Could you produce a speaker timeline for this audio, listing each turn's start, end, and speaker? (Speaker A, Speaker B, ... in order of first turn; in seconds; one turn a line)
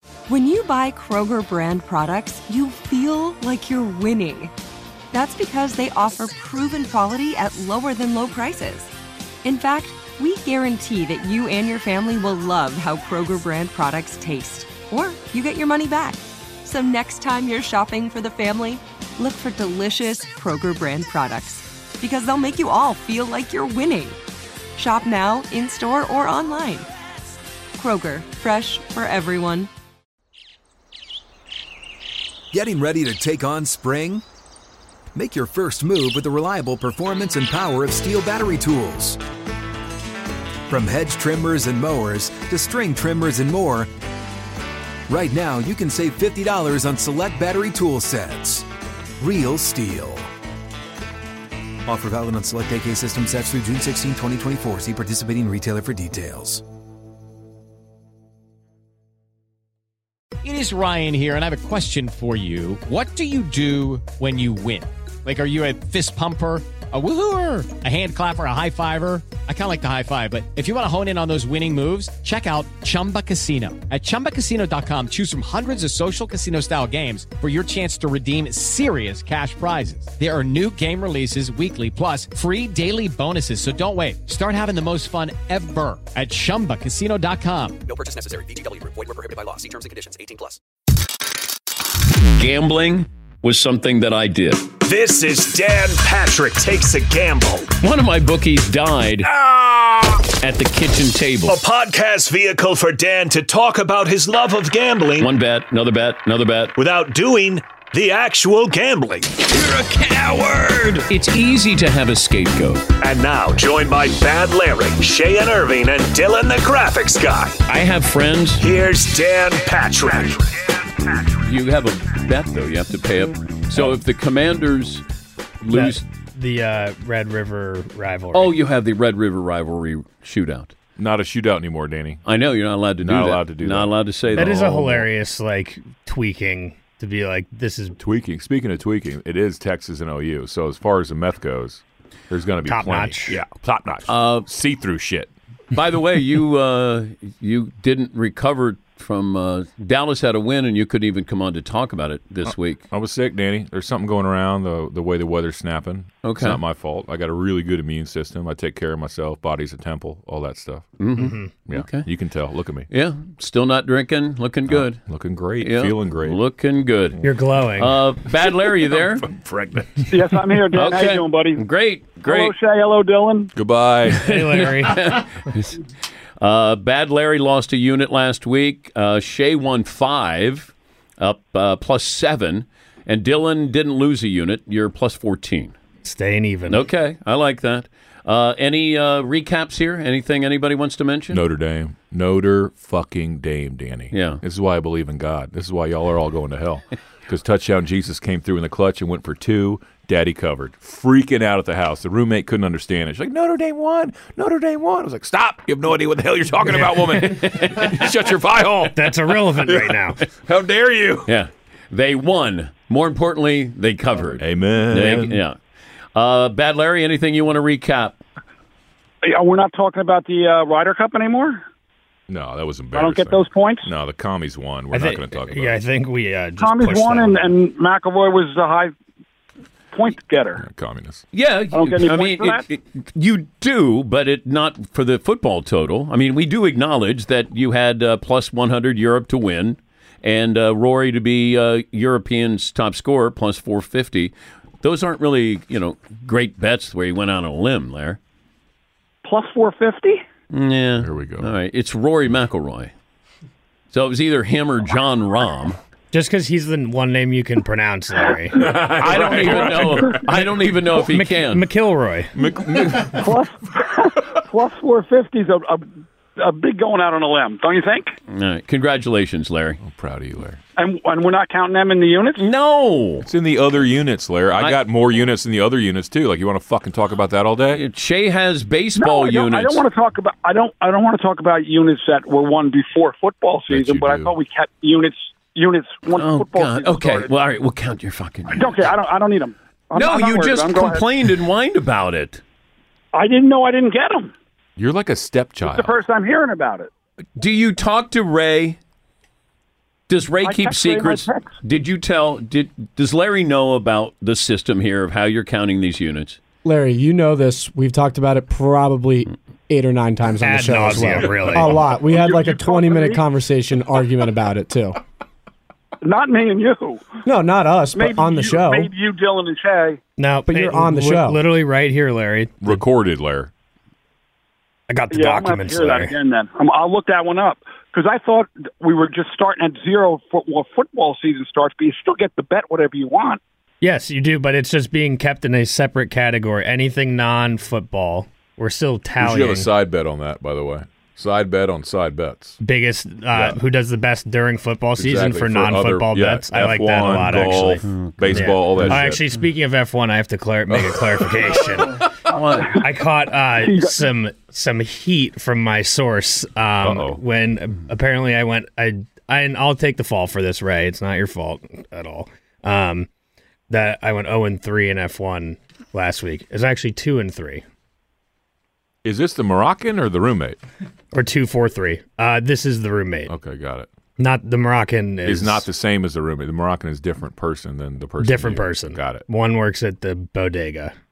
Speaker A: 0.3-4.5
Speaker A: 5.1-8.9
Speaker A: 9.4-24.2
Speaker A: 24.8-26.9
Speaker A: 27.8-29.7
Speaker B: 32.5-34.2
Speaker B: 35.1-39.2
Speaker B: 40.7-43.9
Speaker B: 45.1-48.7
Speaker B: 49.2-50.3
Speaker B: 51.9-56.6
Speaker C: 60.4-87.8
Speaker D: 87.8-90.6
Speaker E: 92.4-94.7
Speaker F: 94.8-97.7
Speaker E: 97.8-99.3
Speaker F: 99.3-100.2
Speaker E: 100.4-101.6
Speaker F: 101.5-105.3
Speaker E: 105.2-106.7
Speaker F: 106.8-111.0
Speaker E: 111.1-112.8
Speaker F: 113.0-117.6
Speaker E: 117.7-118.6
Speaker F: 118.5-120.7
Speaker E: 121.4-125.0
Speaker E: 125.6-126.0
Speaker G: 125.7-128.6
Speaker E: 128.3-130.7
Speaker H: 131.0-132.2
Speaker E: 132.2-135.0
Speaker H: 133.0-134.8
Speaker G: 134.4-138.0
Speaker H: 138.0-145.3
Speaker G: 142.7-143.4
Speaker E: 144.1-144.5
Speaker E: 145.7-152.8
Speaker H: 152.5-161.0
Speaker E: 156.2-156.6
Speaker E: 161.0-162.1
Speaker G: 161.2-161.5
Speaker H: 161.7-162.9
Speaker E: 162.9-165.0
Speaker H: 164.7-166.4
Speaker E: 165.6-167.2
Speaker G: 167.2-168.0
Speaker E: 167.8-169.3
Speaker H: 168.7-170.1
Speaker I: 170.1-171.6
Speaker E: 170.7-172.5
Speaker I: 172.2-173.5
Speaker H: 173.5-174.3
Speaker G: 174.2-175.2
Speaker E: 174.2-175.8
Speaker E: 176.4-185.7
Speaker G: 186.0-186.8
Speaker E: 186.7-191.4
Speaker H: 191.3-211.3
Speaker E: 194.1-194.4
Speaker E: 207.4-208.1
Speaker G: 208.9-210.2
Speaker E: 211.2-215.6
Speaker H: 214.4-215.4
Speaker E: 216.1-218.2
Speaker I: 219.2-221.6
Speaker H: 222.3-225.8
Speaker I: 222.9-223.9
Speaker G: 224.9-227.5
Speaker I: 226.6-228.9
Speaker I: 229.9-230.6
Speaker H: 230.6-231.2
Speaker E: 231.3-248.2
Speaker I: 231.7-232.6
Speaker I: 249.2-250.2
Speaker E: 250.5-252.9
Speaker H: 251.0-251.5
Speaker E: 253.9-255.8
Speaker G: 256.1-258.8
Speaker H: 258.5-260.4
Speaker E: 258.6-261.6
Speaker G: 260.9-262.3
Speaker H: 262.4-263.3
Speaker I: 263.0-268.1
Speaker E: 268.3-269.8
Speaker H: 269.8-270.6
Speaker I: 270.8-272.4
Speaker E: 272.4-273.3
Speaker H: 273.2-277.8
Speaker E: 277.7-279.8
Speaker I: 278.9-287.3
Speaker H: 283.7-284.3
Speaker E: 286.1-288.9
Speaker I: 288.5-291.1
Speaker E: 289.9-292.4
Speaker I: 293.1-294.3
Speaker H: 294.8-295.9
Speaker I: 295.6-296.9
Speaker E: 297.4-298.8
Speaker E: 300.1-306.4
Speaker I: 300.4-301.5
Speaker J: 306.6-315.0
Speaker G: 310.4-311.8
Speaker I: 311.9-313.2
Speaker I: 316.0-317.2
Speaker J: 317.2-318.9
Speaker I: 317.9-320.0
Speaker G: 320.2-322.8
Speaker J: 320.5-321.4
Speaker H: 322.6-323.5
Speaker G: 324.9-326.1
Speaker I: 325.1-333.4
Speaker G: 333.8-339.7
Speaker H: 339.2-342.6
Speaker G: 342.6-363.1
Speaker H: 343.3-343.6
Speaker H: 345.0-349.2
Speaker E: 347.9-348.3
Speaker H: 350.7-351.6
Speaker I: 352.3-352.6
Speaker I: 353.6-354.0
Speaker H: 356.8-357.2
Speaker G: 363.7-367.6
Speaker H: 369.0-370.6
Speaker G: 371.1-373.3
Speaker H: 373.3-373.9
Speaker G: 374.2-375.7
Speaker H: 375.2-379.2
Speaker G: 378.2-380.9